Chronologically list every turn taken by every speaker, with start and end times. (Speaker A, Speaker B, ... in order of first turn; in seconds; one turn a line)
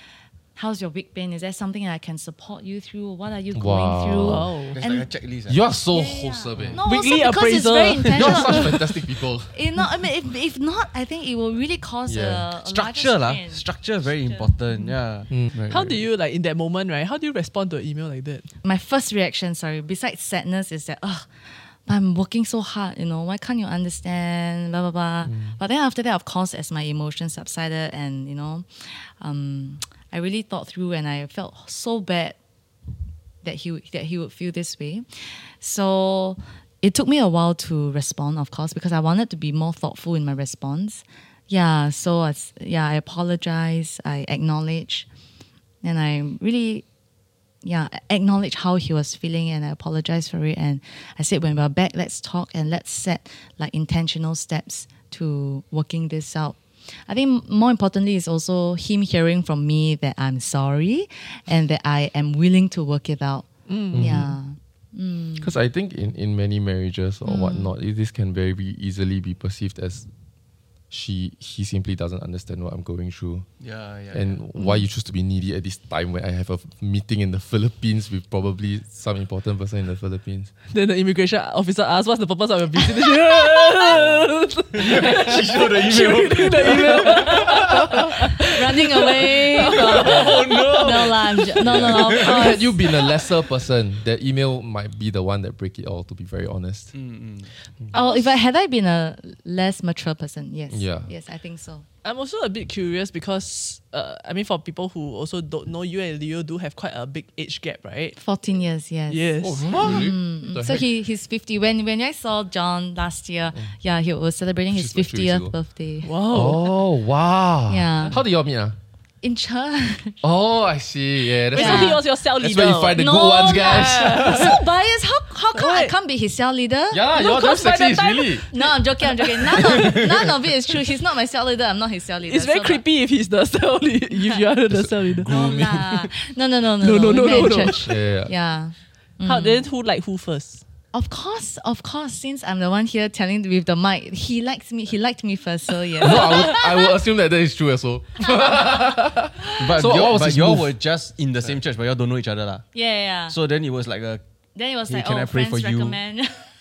Speaker A: 0.6-5.1
Speaker B: 3.5-4.5
Speaker C: 4.3-4.8
Speaker D: 4.7-5.6
Speaker B: 5.5-6.8
Speaker A: 5.9-8.9
Speaker D: 6.6-6.8
Speaker C: 6.8-8.7
Speaker D: 8.1-8.3
Speaker B: 8.2-9.6
Speaker A: 9.5-14.5
Speaker B: 12.1-12.5
Speaker D: 12.6-16.0
Speaker C: 15.7-18.5
Speaker A: 18.6-32.4
Speaker B: 25.2-25.6
Speaker A: 33.4-45.1
Speaker A: 45.8-46.9
Speaker A: 47.6-65.5
Speaker C: 63.7-64.2
Speaker B: 63.9-64.4
Speaker B: 65.4-70.1
Speaker A: 67.2-67.7
Speaker B: 70.9-73.5
Speaker D: 73.6-74.4
Speaker B: 74.1-80.5
Speaker A: 74.6-74.8
Speaker C: 80.7-91.6
Speaker D: 83.9-88.1
Speaker A: 88.5-92.7
Speaker D: 89.7-92.6
Speaker B: 91.7-96.9
Speaker D: 96.9-97.5
Speaker C: 97.9-98.3
Speaker A: 97.9-101.8
Speaker B: 100.7-101.1
Speaker C: 102.0-108.2
Speaker A: 108.2-116.1
Speaker C: 109.1-109.8
Speaker B: 109.4-110.9
Speaker D: 109.7-110.1
Speaker B: 114.7-115.5
Speaker C: 116.0-116.7
Speaker B: 116.3-118.8
Speaker A: 117.7-118.2
Speaker A: 119.2-120.2
Speaker B: 120.2-124.5
Speaker C: 121.5-123.0
Speaker A: 121.6-122.0
Speaker A: 123.0-132.8
Speaker C: 123.6-124.5
Speaker C: 125.5-125.9
Speaker B: 126.9-128.5
Speaker C: 127.2-128.0
Speaker C: 132.3-135.3
Speaker A: 134.1-134.4
Speaker B: 134.7-135.9
Speaker A: 135.3-139.7
Speaker C: 136.8-137.8
Speaker B: 137.4-138.3
Speaker C: 139.2-140.6
Speaker A: 140.9-146.9
Speaker B: 146.0-150.8
Speaker D: 149.6-152.7
Speaker A: 152.7-153.4
Speaker D: 153.3-154.2
Speaker A: 154.6-156.5
Speaker D: 154.9-156.0